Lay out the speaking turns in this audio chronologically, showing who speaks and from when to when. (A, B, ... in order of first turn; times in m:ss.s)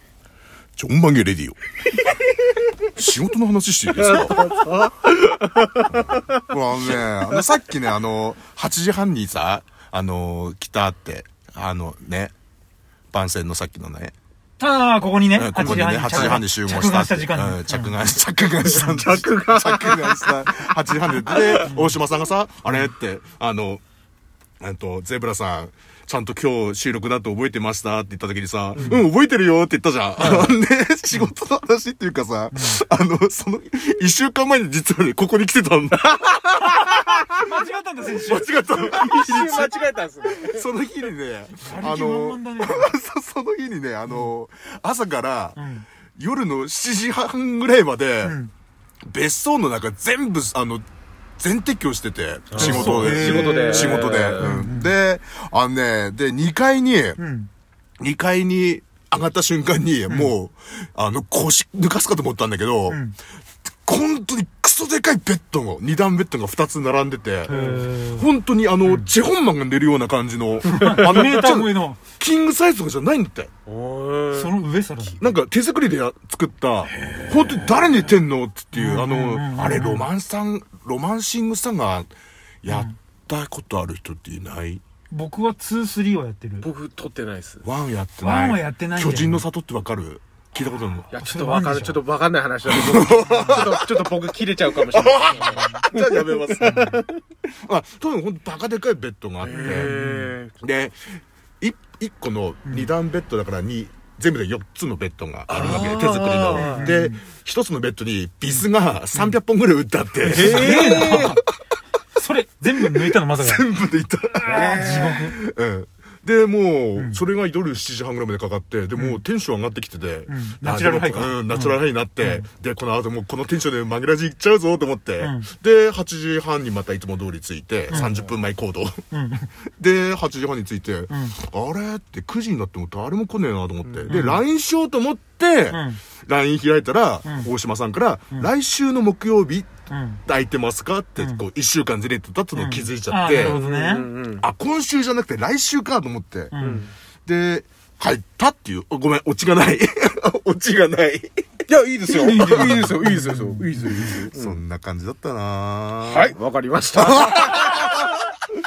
0:00.8-0:01.6 A
0:03.0-0:04.5 A
0:04.0-0:07.5 B
0:05.9-0:12.3 A
0:13.1-0:14.1 A
0:14.6-0:18.0 C
0:15.4-0:23.8 A
0:16.1-0:16.4 B
0:18.7-0:19.0 C
0:18.7-0:20.4 B
0:21.3-0:21.7 B
0:21.7-0:22.0 C
0:24.6-0:37.2 A
0:30.2-0:30.6 B
0:32.5-0:32.8 C
0:37.3-0:38.9 C
0:38.0-0:45.6 A
0:38.8-0:40.6 B
0:41.6-0:42.9 C
0:45.6-0:45.9 C
0:46.2-0:48.4 A
0:48.2-0:48.5 C
0:49.1-0:50.9 A
0:51.4-0:57.2 A
0:52.5-0:54.5 B
0:52.6-0:54.9 C
0:57.2-0:57.5 C
0:58.0-1:03.0 A
1:02.9-1:03.2 C
1:03.7-1:07.5 A
1:07.5-1:08.3 C
1:07.5-1:07.9 B
1:08.1-1:13.5 A
1:08.8-1:09.1 C
1:10.6-1:12.0 C
1:13.7-1:14.6 B
1:14.3-1:15.2 C
1:15.2-1:22.1 A
1:17.0-1:17.7 B
1:18.7-1:20.1 C
1:22.6-1:24.8 A
1:22.7-1:23.0 C
1:25.1-1:26.7 C
1:26.6-1:27.6 B
1:27.6-1:31.1 A
1:28.2-1:29.4 C
1:31.1-1:37.1 B
1:31.2-1:32.0 C
1:32.7-1:34.0 A
1:34.9-1:37.0 A
1:36.6-1:37.0 C
1:37.6-1:40.0 A
1:39.4-1:40.6 B
1:39.5-1:40.3 C
1:40.6-1:51.4 A
1:42.7-1:42.9 C
1:45.5-1:46.9 B
1:46.5-1:47.2 C
1:50.2-1:51.4 B
1:50.3-1:51.4 C
1:52.2-1:53.7 C
1:52.8-2:09.0 A
1:54.4-1:55.4 C
1:54.5-1:55.1 B
1:57.0-1:57.2 C
1:59.0-1:59.2 C
2:00.3-2:02.5 C
2:05.2-2:05.5 C
2:07.9-2:08.2 C
2:07.9-2:08.3 B
2:09.1-2:09.5 C
2:09.8-2:19.7 A
2:11.1-2:11.4 C
2:13.9-2:14.1 B
2:14.1-2:14.4 C
2:15.7-2:16.0 C
2:17.2-2:17.5 C
2:19.9-2:20.2 C
2:20.2-2:23.6 A
2:22.6-2:24.1 C
2:23.3-2:24.4 B
2:24.4-2:26.5 A
2:26.5-2:26.9 C
2:26.6-2:26.9 B
2:27.3-2:31.6 A
2:31.7-2:34.6 B
2:32.1-2:34.1 C
2:34.3-2:36.4 A
2:36.0-2:38.0 B
2:37.0-2:37.9 A